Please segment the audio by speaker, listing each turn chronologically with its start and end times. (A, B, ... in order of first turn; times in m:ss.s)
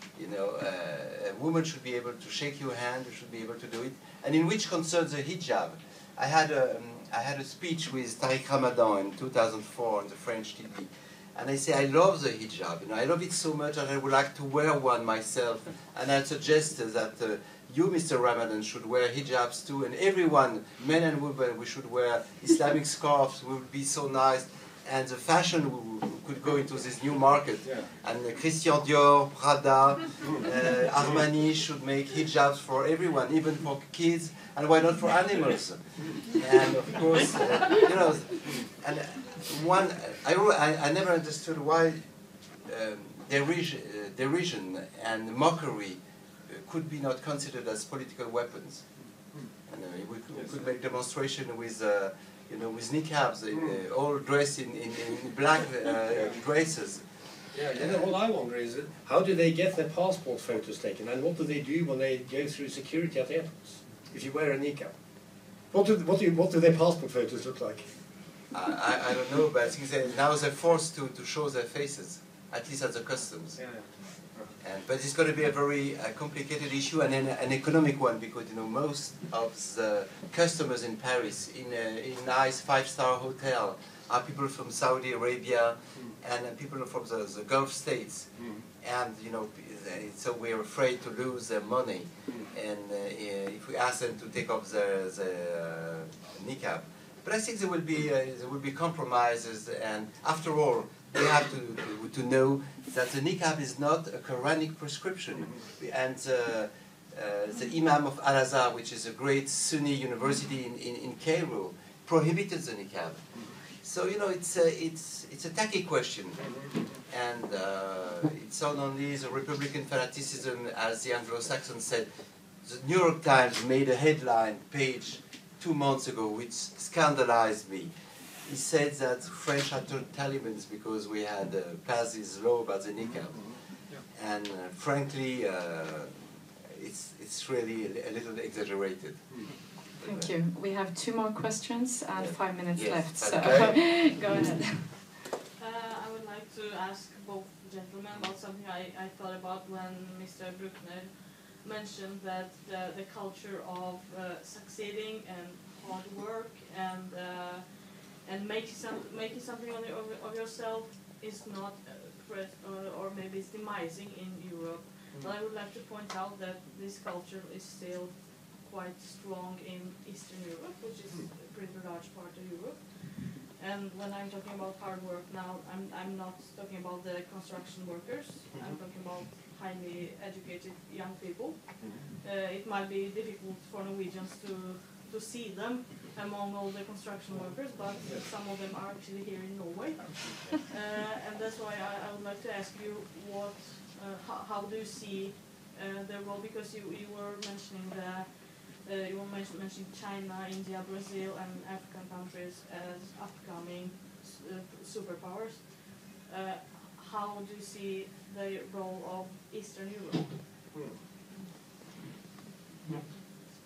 0:00.2-0:42.0 A
0:27.6-0:27.9 B
0:42.6-0:48.8 A
0:49.7-0:57.0 A
0:57.5-1:04.9 B
0:57.7-0:58.1 A
1:05.7-1:07.9 B
1:08.5-1:13.6 A
1:13.6-1:14.5 B
1:14.6-1:28.3 A
1:28.4-1:28.6 B
1:28.8-1:53.2 A
1:53.8-1:56.5 A
1:56.4-1:56.7 B
1:57.1-2:02.1 A
2:02.6-2:07.9 A
2:08.4-2:13.4 A
2:13.4-2:14.0 B
2:14.1-2:19.3 A
2:20.0-2:20.3 A
2:20.0-2:24.9 C
2:22.2-2:23.8 A
2:24.2-3:30.4 D
2:58.5-2:58.8 B
3:08.0-3:08.3 B